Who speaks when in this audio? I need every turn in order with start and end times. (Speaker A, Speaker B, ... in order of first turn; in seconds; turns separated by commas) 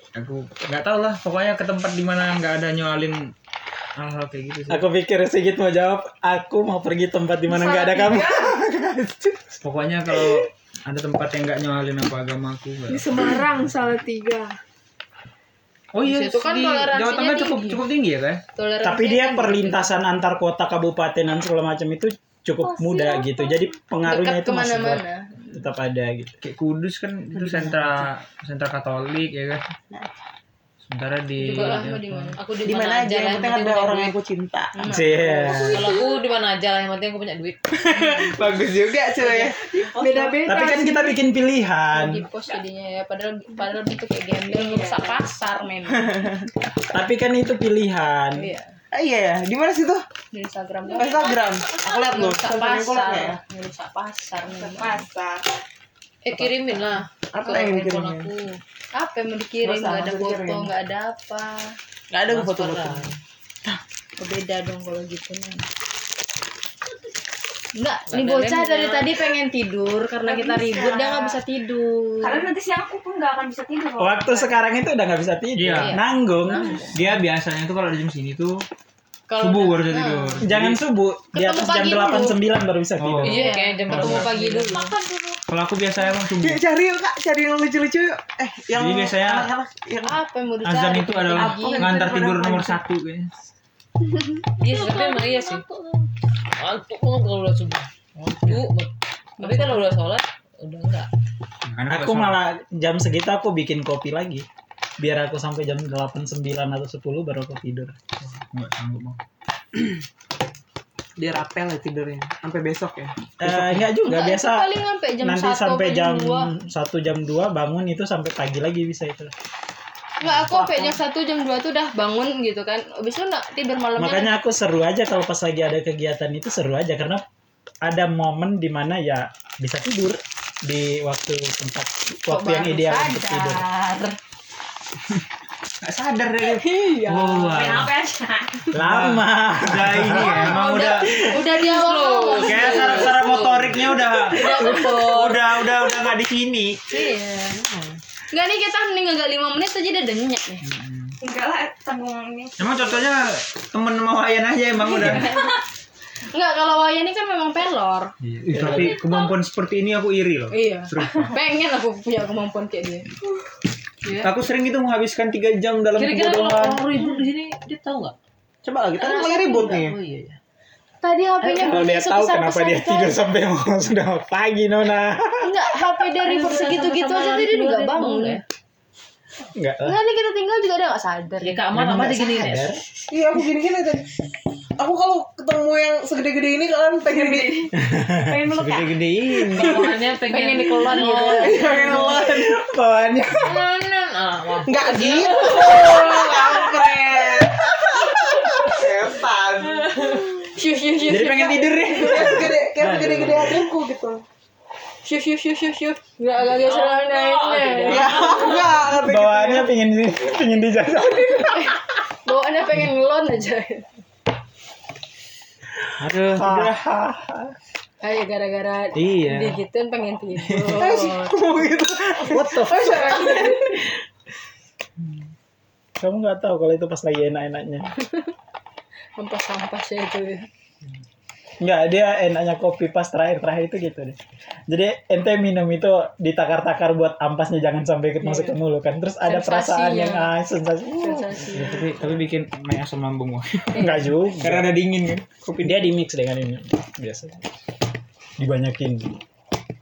Speaker A: 0.1-3.3, Speaker A: 4.0-4.8, Speaker B: 4.7-9.4, Speaker C: 7.5-8.5, Speaker A: 9.6-13.5, Speaker C: 12.9-14.5, Speaker A: 15.9-18.4, Speaker D: 16.0-17.8, Speaker D: 18.6-19.9, Speaker B: 18.8-26.4, Speaker E: 22.6-23.7, Speaker D: 24.0-25.6, Speaker A: 26.4-29.6, Speaker F: 27.3-28.0, Speaker A: 30.8-32.4, Speaker D: 31.4-32.4, Speaker G: 31.4-31.9, Speaker G: 32.4-34.1, Speaker F: 32.6-34.9, Speaker D: 34.7-35.6, Speaker B: 34.9-35.9, Speaker E: 35.4-36.3, Speaker G: 35.7-38.2, Speaker F: 37.7-39.6, Speaker H: 39.2-40.5, Speaker C: 40.0-41.2, Speaker B: 40.5-42.2, Speaker D: 41.9-46.3, Speaker H: 44.5-45.2, Speaker F: 46.0-46.4, Speaker B: 46.9-48.5, Speaker D: 48.4-48.8, Speaker F: 48.9-50.0, Speaker D: 50.3-51.4, Speaker E: 50.8-52.4, Speaker F: 51.0-53.4, Speaker D: 51.9-55.1, Speaker H: 54.5-55.5, Speaker G: 56.2-58.6, Speaker F: 56.3-56.6, Speaker F: 57.3-58.3, Speaker D: 58.9-61.7, Speaker F: 59.6-60.7, Speaker G: 62.1-63.1, Speaker F: 62.2-63.1, Speaker D: 64.2-65.7, Speaker D: 67.8-72.5, Speaker G: 68.1-69.2, Speaker H: 70.2-71.3, Speaker H: 72.2-74.6, Speaker B: 74.0-76.8, Speaker A: 75.5-76.0, Speaker D: 76.4-77.0, Speaker A: 76.9-78.6, Speaker D: 79.3-80.4, Speaker A: 79.4-80.8, Speaker B: 80.4-83.4, Speaker D: 81.3-82.4, Speaker A: 83.0-84.3, Speaker G: 83.2-84.9, Speaker D: 83.2-84.9, Speaker E: 84.7-85.5, Speaker A: 85.5-86.6, Speaker F: 86.2-90.2, Speaker A: 88.7-89.5, Speaker D: 90.0-92.0, Speaker A: 90.6-93.3, Speaker F: 91.3-92.8, Speaker E: 94.6-96.1, Speaker G: 94.6-95.6, Speaker G: 96.5-97.9, Speaker A: 98.2-98.7, Speaker G: 98.4-101.1, Speaker D: 99.4-99.9, Speaker A: 101.7-102.4, Speaker B: 101.9-104.5, Speaker B: 105.0-107.9, Speaker A: 108.2-109.2, Speaker F: 111.2-113.1, Speaker B: 113.4-119.3, Speaker A: 113.4-113.9, Speaker D: 114.0-116.5, Speaker D: 120.2-124.3, Speaker B: 124.0-127.2, Speaker B: 127.8-133.6, Speaker D: 132.3-134.2, Speaker A: 135.8-137.9, Speaker D: 136.6-137.6, Speaker H: 137.4-138.7, Speaker B: 138.7-140.5, Speaker A: 138.7-141.3, Speaker D: 140.1-143.2, Speaker G: 141.3-143.9, Speaker A: 142.4-146.9, Speaker D: 144.1-145.9, Speaker D: 146.9-147.6, Speaker F: 147.5-147.9, Speaker D: 148.3-150.7, Speaker A: 150.6-151.2, Speaker H: 151.2-153.1, Speaker A: 152.6-155.4, Speaker D: 154.9-155.6, Speaker D: 156.3-158.1, Speaker A: 158.2-161.4, Speaker B: 158.5-158.9, Speaker E: 158.6-159.4, Speaker D: 160.5-163.1, Speaker G: 164.0-164.3, Speaker A: 164.2-166.9, Speaker G: 166.0-168.1, Speaker F: 168.6-170.0, Speaker G: 169.0-170.4, Speaker D: 171.0-173.1, Speaker B: 171.4-175.5, Speaker D: 175.4-178.4, Speaker G: 176.2-178.4, Speaker B: 179.5-180.0, Speaker D: 179.8-181.6, Speaker G: 181.4-182.8, Speaker B: 181.7-182.8, Speaker F: 183.1-184.1, Speaker F: 184.8-187.7, Speaker B: 187.9-188.5, Speaker H: 188.2-189.1, Speaker A: 188.5-189.9, Speaker F: 189.5-189.9, Speaker G: 189.6-192.1, Speaker D: 190.3-192.2, Speaker F: 190.9-192.5, Speaker B: 192.1-193.6, Speaker G: 193.4-196.6, Speaker F: 194.6-197.7, Speaker D: 195.5-196.5, Speaker D: 198.1-198.5, Speaker F: 198.6-200.2, Speaker D: 200.0-202.5, Speaker B: 201.1-203.2, Speaker F: 202.0-204.2, Speaker A: 202.8-203.6, Speaker D: 205.0-208.5, Speaker G: 206.4-208.8, Speaker F: 207.8-209.7, Speaker B: 209.0-211.6, Speaker D: 211.4-213.9, Speaker A: 216.0-216.7, Speaker B: 216.3-217.4, Speaker D: 218.0-221.4, Speaker A: 218.9-219.6, Speaker A: 220.5-220.9, Speaker F: 220.8-223.6, Speaker B: 222.2-223.2, Speaker D: 222.9-223.2, Speaker C: 223.1-223.4, Speaker B: 226.0-227.9, Speaker D: 229.2-230.5, Speaker B: 231.6-234.2, Speaker B: 234.7-241.5, Speaker D: 238.2-238.5, Speaker D: 239.2-240.3, Speaker D: 241.0-241.9, Speaker A: 241.4-245.8, Speaker B: 243.7-244.7, Speaker B: 245.6-247.4, Speaker B: 248.4-249.2